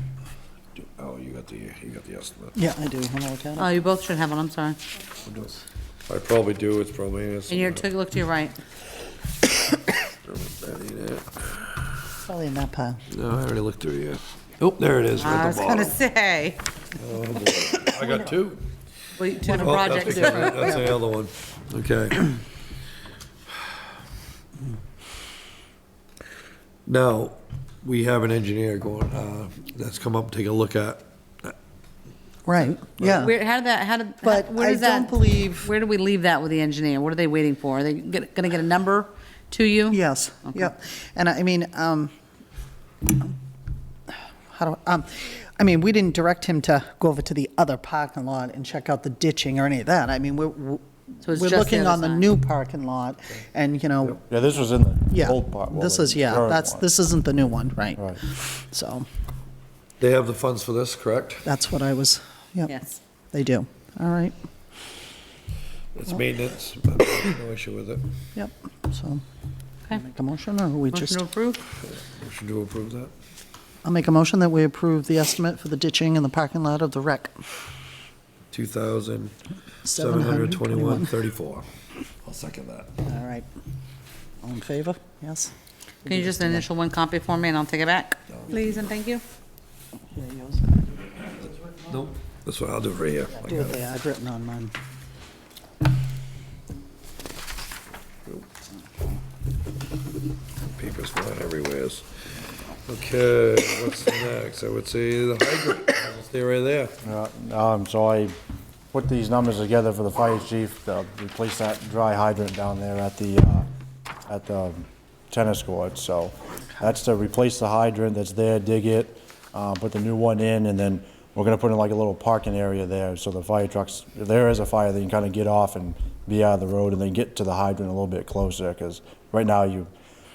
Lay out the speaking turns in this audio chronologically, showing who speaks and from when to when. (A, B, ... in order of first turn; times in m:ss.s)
0:00.8-0:02.6 A
0:02.6-0:03.8 B
0:03.6-0:04.8 C
0:05.2-0:05.6 A
0:06.1-0:07.9 A
0:07.5-0:08.6 C
0:10.0-0:12.0 A
0:12.2-0:13.0 B
0:13.1-0:16.0 A
0:15.2-0:16.6 C
0:17.0-0:18.6 A
0:19.2-0:20.9 C
0:19.4-0:21.0 B
0:19.5-0:22.4 A
0:26.9-0:31.6 A
0:32.5-0:33.3 B
0:33.0-0:33.3 A
0:33.2-0:40.7 C
0:34.2-0:35.7 B
0:39.9-0:42.1 B
0:43.1-0:43.3 B
0:44.1-0:54.2 B
0:51.2-0:52.3 C
0:54.2-0:56.8 D
0:55.1-0:59.1 B
1:00.0-1:01.5 A
1:01.4-1:02.7 B
1:02.7-1:03.0 C
1:03.3-1:04.4 B
1:06.0-1:08.1 A
1:08.4-1:09.2 B
1:09.9-1:11.2 B
1:10.9-1:11.6 C
1:11.8-1:13.1 A
1:13.8-1:17.4 B
1:18.5-1:19.4 A
1:19.9-1:21.1 B
1:19.9-1:21.7 A
1:22.2-1:23.0 A
1:23.0-1:23.5 B
1:24.4-1:25.5 B
1:26.0-1:26.6 B
1:26.1-1:29.2 C
1:30.1-1:31.7 B
1:31.9-1:33.8 A
1:33.4-1:34.7 B
1:40.6-1:42.1 A
1:42.8-1:46.9 A
1:47.0-1:48.4 D
1:48.9-1:53.7 D
1:54.3-2:09.9 D